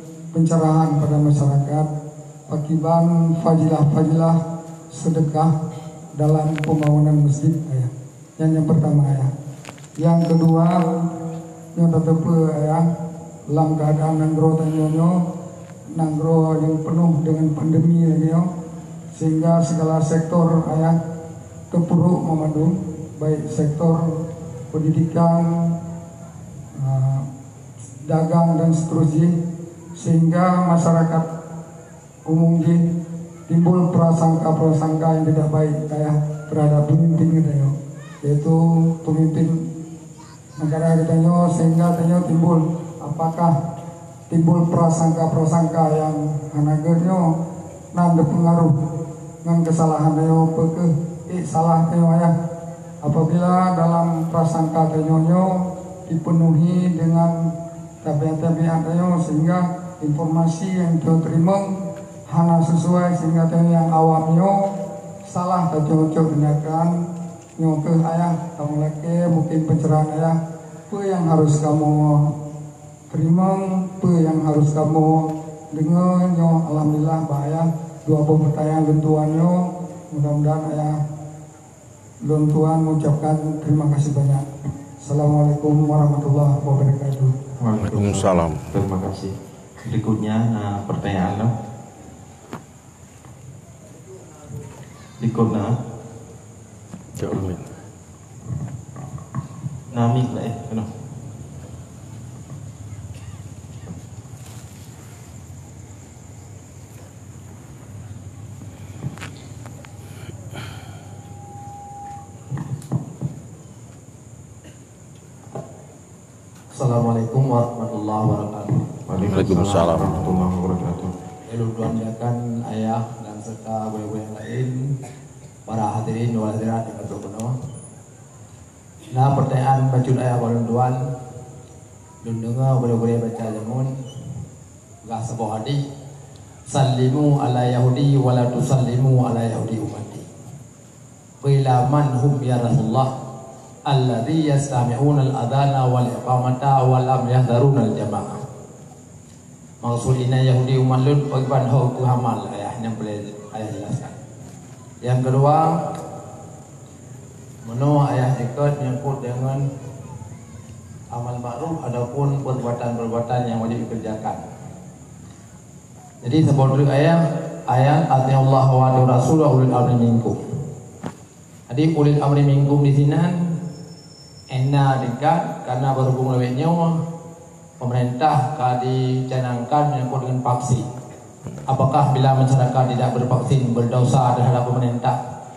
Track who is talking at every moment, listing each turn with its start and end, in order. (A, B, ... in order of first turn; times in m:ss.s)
0:00.3-0:01.9 A
0:02.5-0:04.4 A
0:04.9-0:05.5 A
0:06.2-0:09.3 A
0:10.0-0:10.8 A
0:11.7-0:12.8 A
0:13.5-0:15.2 A
0:15.9-0:18.5 A
0:19.1-0:21.0 A
0:21.7-0:24.0 A
0:24.7-0:25.8 A
0:26.8-0:27.3 A
0:28.1-0:29.3 A
0:30.0-0:31.3 A
0:32.3-0:32.8 A
0:33.5-0:39.6 A
0:40.6-0:43.5 A
0:44.3-0:47.2 A
0:47.9-0:48.8 A
0:49.4-0:52.3 A
0:53.0-0:55.5 A
0:56.0-0:57.4 A
0:58.0-1:01.7 A
1:02.3-1:04.6 A
1:05.3-1:06.9 A
1:07.6-1:10.4 A
1:10.9-1:12.3 A
1:13.1-1:21.0 A
1:22.2-1:24.4 A
1:25.0-1:27.3 A
1:27.6-1:31.5 B
1:27.8-1:28.7 C
1:35.2-1:35.8 B
1:37.2-1:37.6 C
1:39.9-1:40.9 B
1:56.7-1:58.9 D
1:59.1-2:01.1 B
1:59.2-2:00.4 C
2:01.5-2:04.9 D
2:05.6-2:07.5 D
2:09.1-2:11.0 D
2:12.2-2:13.9 D
2:15.0-2:15.8 D
2:16.7-2:20.2 D
2:21.4-2:23.1 D
2:23.9-2:28.4 D
2:29.8-2:34.1 D
2:35.0-2:35.9 D
2:37.6-2:39.6 D
2:41.1-2:44.4 D
2:46.2-2:50.4 D
2:51.7-2:53.4 D
2:54.5-2:57.0 D
2:57.8-3:00.8 D
3:01.6-3:05.2 D